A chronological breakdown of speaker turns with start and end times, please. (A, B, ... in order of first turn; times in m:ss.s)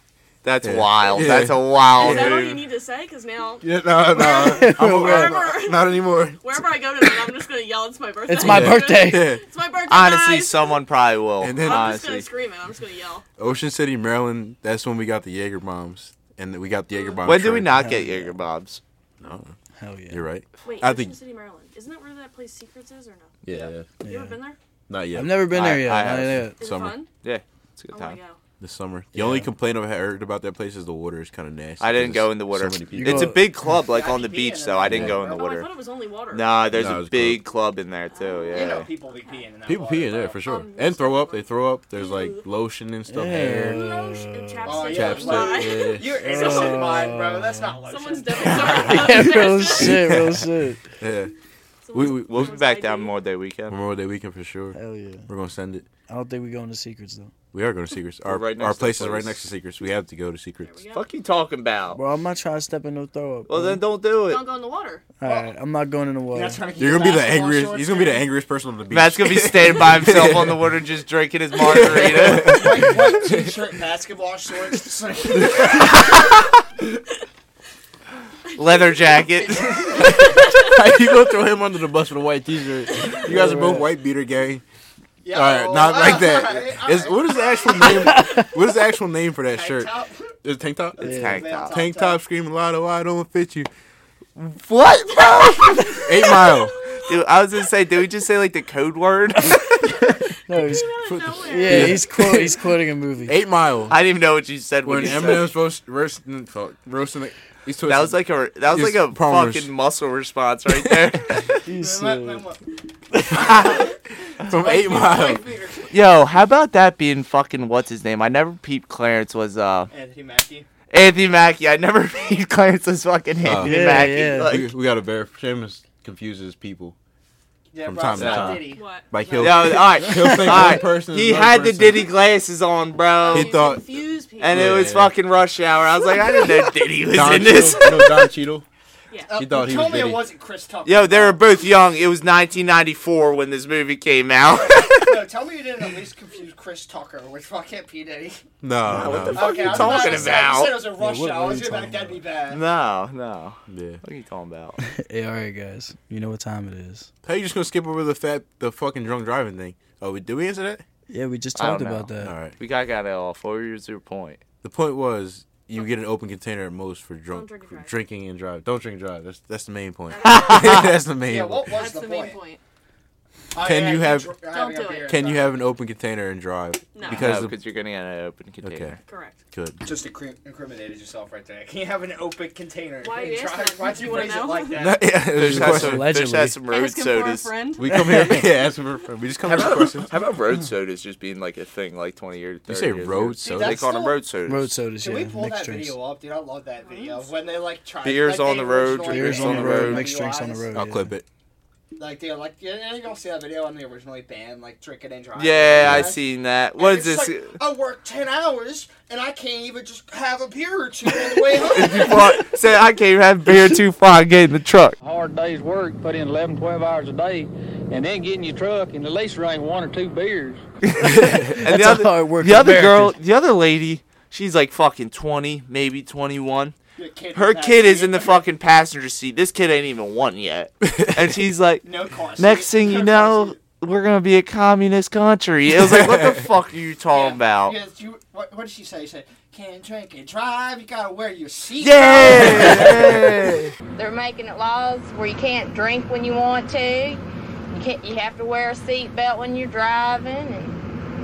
0:00.4-0:02.6 A
0:00.6-0:02.5 B
0:02.0-0:10.8 C
0:03.6-0:07.1 B
0:04.5-0:05.3 D
0:08.3-0:09.3 D
0:08.4-0:09.4 B
0:09.9-0:12.3 A
0:11.4-0:12.0 B
0:11.6-0:13.2 C
0:13.4-0:17.7 B
0:16.9-0:17.2 C
0:17.2-0:18.8 A
0:17.7-0:18.4 D
0:19.2-0:19.6 B
0:19.8-0:20.2 D
0:20.1-0:21.2 B
0:20.6-0:23.4 C
0:23.4-0:23.9 B
0:23.5-0:23.7 E
0:24.0-0:24.4 D
0:24.0-0:24.6 C
0:24.9-0:25.4 B
0:25.2-0:26.6 D
0:25.5-0:26.5 A
0:26.6-0:27.1 C
0:26.6-0:27.0 B
0:27.2-0:28.2 A
0:27.9-0:28.4 C
0:28.6-0:33.4 B
0:29.1-0:29.5 D
0:31.8-0:35.7 A
0:33.0-0:33.4 D
0:33.8-0:35.5 E
0:34.8-0:35.2 B
0:35.2-0:36.6 C
0:36.3-0:38.9 A
0:36.7-0:37.4 B
0:38.1-0:39.4 C
0:38.5-0:40.4 E
0:39.7-0:43.9 B
0:40.4-0:42.4 C
0:43.1-0:44.7 D
0:43.6-0:47.1 C
0:44.6-0:49.4 E
0:44.8-0:46.1 B
0:46.2-0:47.8 D
0:47.9-0:50.1 C
0:48.6-0:50.8 D
0:49.7-0:50.5 B
0:51.0-0:51.3 B
0:51.8-0:53.2 C
0:51.9-0:52.6 B
0:52.1-0:53.8 A
0:53.7-0:55.9 B
0:54.8-0:55.3 D
0:56.1-0:57.3 D
0:57.5-1:00.8 B
0:58.3-0:59.4 A
1:00.6-1:01.0 C
1:00.9-1:02.0 A
1:01.9-1:03.8 D
1:03.5-1:04.4 A
1:04.3-1:05.0 C
1:05.2-1:06.6 D
1:05.2-1:05.5 E
1:06.3-1:08.2 E
1:06.8-1:10.7 B
1:08.9-1:12.7 A
1:11.7-1:13.5 B
1:12.0-1:16.3 E
1:15.3-1:15.9 B
1:18.6-1:20.0 A
1:19.7-1:20.0 E
1:20.0-1:24.6 B
1:20.2-1:20.8 C
1:23.2-1:23.9 D
1:25.2-1:28.3 E
1:25.3-1:29.9 B
1:28.1-1:28.5 D
1:29.5-1:30.4 E
1:30.4-1:33.7 B
1:31.0-1:32.2 E
1:31.0-1:31.8 A
1:31.0-1:31.4 D
1:34.4-1:36.4 A
1:35.9-1:37.2 C
1:36.0-1:36.8 B
1:37.1-1:39.7 A
1:39.8-1:42.4 C
1:40.0-1:40.9 D
1:41.0-1:42.6 B
1:41.4-1:43.4 D
1:43.3-1:44.0 B
1:43.9-1:45.5 A
1:44.9-1:49.7 B
1:47.9-1:51.6 A
1:51.7-1:52.4 D
1:51.7-1:52.6 E
1:53.3-1:53.9 B
1:53.4-1:53.9 E
1:53.6-1:53.8 A
1:54.5-1:55.4 B
1:54.5-1:55.9 E
1:55.9-1:59.9 A
1:59.9-2:00.7 E
2:00.9-2:04.7 A
2:03.4-2:07.0 B
2:03.6-2:04.5 D
2:07.7-2:10.8 E
2:07.8-2:12.1 B
2:08.2-2:08.6 A
2:08.7-2:09.1 C
2:09.4-2:13.6 A
2:13.2-2:15.0 C
2:13.3-2:13.8 B
2:14.4-2:18.0 A
2:14.5-2:15.2 B
2:16.1-2:16.7 C
2:17.1-2:18.7 B
2:17.9-2:18.2 C
2:19.3-2:21.4 E
2:19.3-2:20.2 B
2:20.9-2:25.2 A
2:24.5-2:28.4 E
2:28.6-2:30.0 B
2:28.9-2:30.9 A
2:29.0-2:32.6 E
2:31.0-2:32.2 D
2:32.5-2:34.8 A
2:33.7-2:34.0 B
2:34.8-2:37.1 D
2:37.2-2:40.8 B
2:41.1-2:42.3 D
2:41.6-2:44.4 A
2:42.2-2:42.6 B
2:44.6-2:51.8 B
2:47.3-2:47.9 C
2:50.1-2:50.9 C
2:50.2-2:50.9 A
2:51.2-2:52.4 E
2:51.7-2:52.6 C
2:53.5-2:55.5 E
2:53.6-2:54.4 B
2:54.5-2:55.2 C
2:55.0-2:57.6 B
2:56.9-2:57.3 C
2:57.1-2:59.0 A
2:58.6-2:59.0 B
2:59.1-2:59.4 C
2:59.5-2:59.8 B
2:59.8-3:05.2 E
3:03.0-3:04.8 C
3:04.8-3:06.1 B
3:05.2-3:07.5 A
3:05.7-3:06.6 D
3:06.7-3:07.8 C
3:07.8-3:10.1 B
3:07.9-3:08.4 D
3:09.5-3:14.8 A
3:12.7-3:13.8 B
3:13.4-3:14.2 E
3:14.5-3:16.0 D
3:15.0-3:20.7 E
3:16.8-3:17.3 C
3:18.0-3:20.1 A
3:19.0-3:21.1 D
3:20.7-3:21.3 B
3:22.0-3:32.5 E
3:25.4-3:27.6 A
3:25.8-3:26.2 B
3:31.6-3:35.0 A
3:35.0-3:40.6 F
3:40.8-3:46.8 A
3:41.2-3:41.6 B
3:41.2-3:43.2 D
3:47.0-3:48.5 E
3:47.3-3:51.8 A
3:50.8-3:51.2 B
3:51.8-3:53.6 E
3:52.4-3:57.8 A
3:55.9-3:56.4 B
3:57.1-4:03.3 E
4:01.8-4:03.7 A
4:04.0-4:07.2 G
4:07.7-4:10.8 G